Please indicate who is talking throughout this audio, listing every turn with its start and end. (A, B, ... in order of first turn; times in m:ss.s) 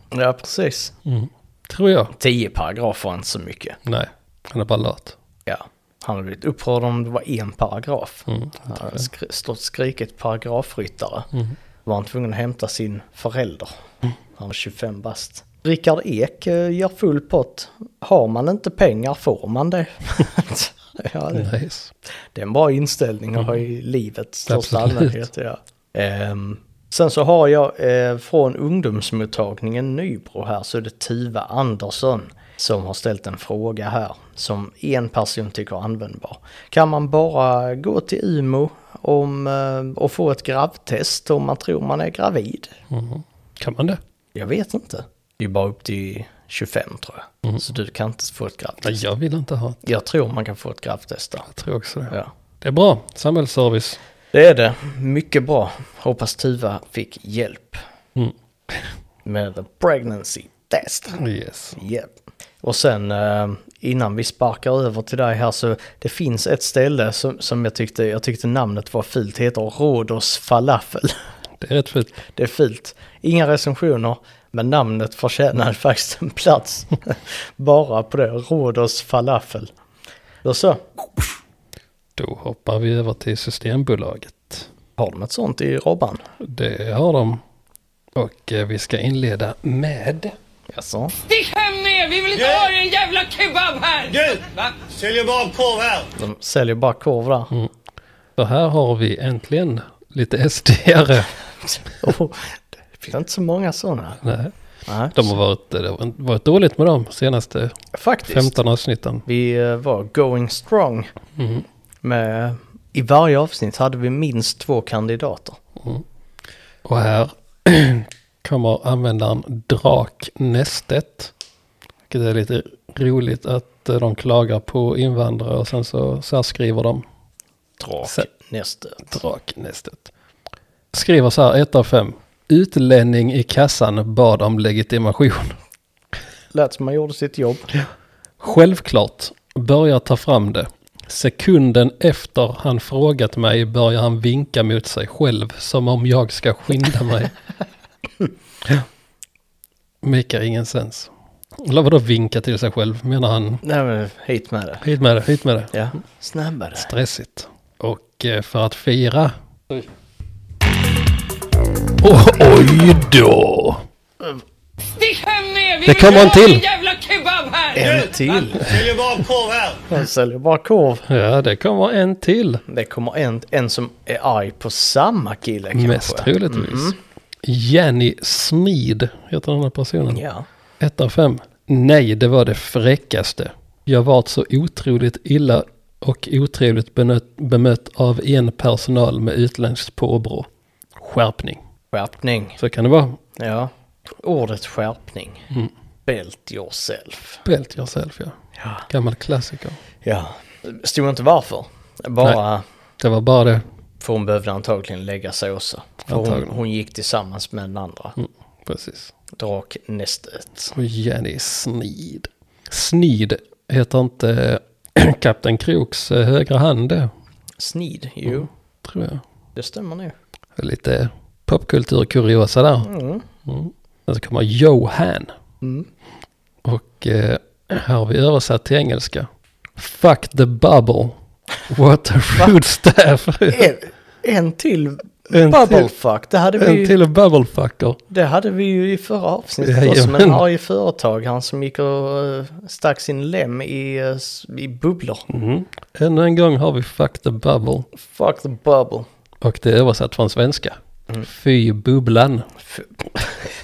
0:00.1-0:00.9 A
0:01.0-0:02.2 B
0:02.2-0:03.8 A
0:03.8-0:05.2 B
0:05.5-0:11.3 A
0:08.3-0:09.0 B
0:11.8-0:13.7 A
0:14.4-0:21.5 A
0:21.3-0:21.9 B
0:22.3-0:42.7 A
0:24.5-0:25.2 B
0:42.9-0:44.0 B
0:44.4-0:49.0 A
0:48.8-0:49.8 B
0:49.8-0:51.5 A
0:51.5-0:54.0 B
0:54.3-0:57.8 A
0:58.2-0:58.8 B
0:59.2-1:01.2 A
1:01.1-1:01.8 B
1:01.8-1:11.2 A
1:11.6-1:12.2 B
1:12.3-1:19.7 A
1:20.4-1:21.0 A
1:22.2-1:24.7 B
1:25.0-1:26.2 A
1:26.4-1:27.4 B
1:28.2-1:30.3 B
1:30.7-1:31.2 A
1:31.3-1:34.7 C
1:34.1-1:36.1 D
1:36.2-1:37.5 A
1:38.4-1:41.3 B
1:41.7-1:44.2 A
1:44.2-1:44.5 B
1:44.9-1:45.3 A
1:45.1-1:49.2 B
1:47.9-1:48.6 A
1:49.3-1:51.1 A
1:51.4-1:51.6 B
1:52.0-1:55.6 A
1:56.8-2:01.3 B
2:02.1-2:07.0 B
2:07.8-2:09.2 A
2:09.1-2:10.1 B
2:10.9-2:15.6 B
2:16.5-2:17.7 A
2:18.4-2:27.3 B
2:30.0-2:33.6 B
2:33.6-2:34.8 A
2:34.8-2:35.7 B
2:35.7-2:36.9 A
2:36.8-2:39.9 B
2:42.0-2:43.8 B
2:45.0-2:47.9 C
2:45.9-2:46.6 B
2:47.8-2:48.7 A
2:47.8-2:49.9 D
2:49.9-2:51.1 A
2:51.1-2:52.6 B
2:52.7-2:57.0 A
2:55.7-3:00.2 B
3:00.1-3:00.5 A
3:00.8-3:11.6 B
3:11.9-3:12.6 A
3:12.6-3:13.2 B
3:13.4-3:15.5 A
3:16.1-3:17.4 A
3:17.4-3:19.8 B
3:18.6-3:18.8 A
3:20.0-3:22.6 A
3:23.0-3:23.6 B
3:24.0-3:28.2 A
3:26.1-3:26.6 B
3:28.2-3:29.1 B
3:29.4-3:30.7 A
3:30.7-3:37.1 B
3:37.6-3:38.5 A
3:38.3-3:39.2 B
3:39.6-3:40.2 A
3:40.6-3:42.9 B
3:42.8-3:43.2 A
3:43.5-3:45.3 B
3:45.6-3:45.9 A
3:46.6-3:53.7 B
3:53.5-3:57.0 A
3:55.3-3:55.9 B
3:56.6-3:58.0 B
3:58.1-4:05.3 A
3:59.6-4:00.4 B
4:05.3-4:07.9 B
4:08.0-4:09.1 A
4:09.4-4:12.5 B
4:12.7-4:13.5 A